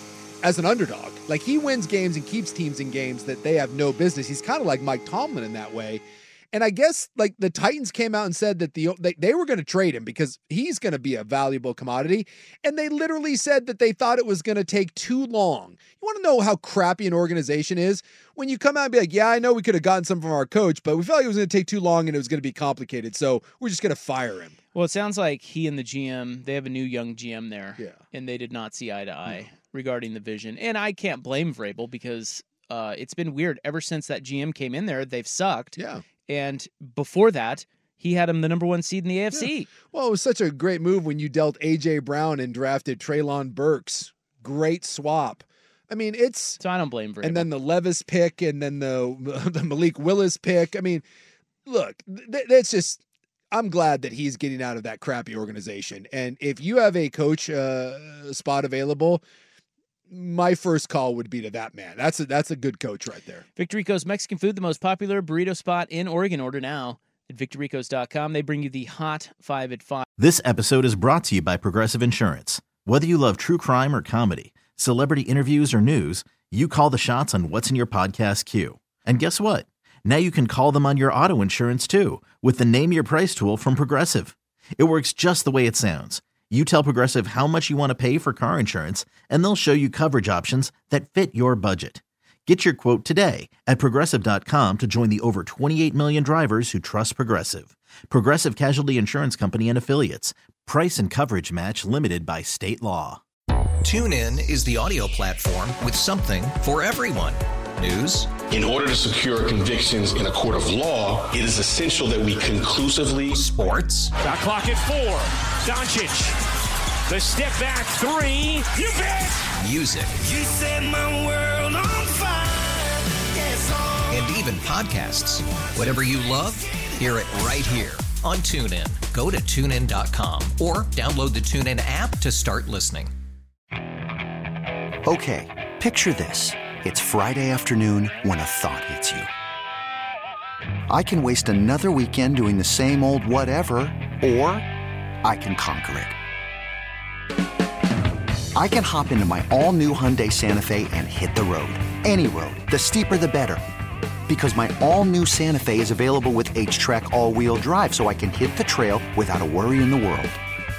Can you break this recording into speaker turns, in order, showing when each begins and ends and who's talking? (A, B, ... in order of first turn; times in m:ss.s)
0:00.4-0:24.6 A
0:24.7-0:39.7 B
0:35.8-0:36.0 A
0:39.3-0:46.6 A
0:46.6-0:47.5 B
0:47.2-0:51.0 A
0:51.7-0:59.2 A
1:00.1-1:03.4 A
1:03.6-1:10.1 B
1:10.2-1:43.2 C
1:43.8-1:48.3 D
1:48.5-1:53.4 E
1:53.3-1:54.2 D
1:54.2-1:56.4 F
1:57.1-1:59.5 F
1:59.5-2:00.2 D
2:00.2-2:04.2 F
2:04.1-2:13.1 D
2:15.1-2:19.3 G
2:20.9-2:24.7 G
2:25.2-2:26.2 G
2:28.6-2:33.6 G
2:34.3-2:40.4 G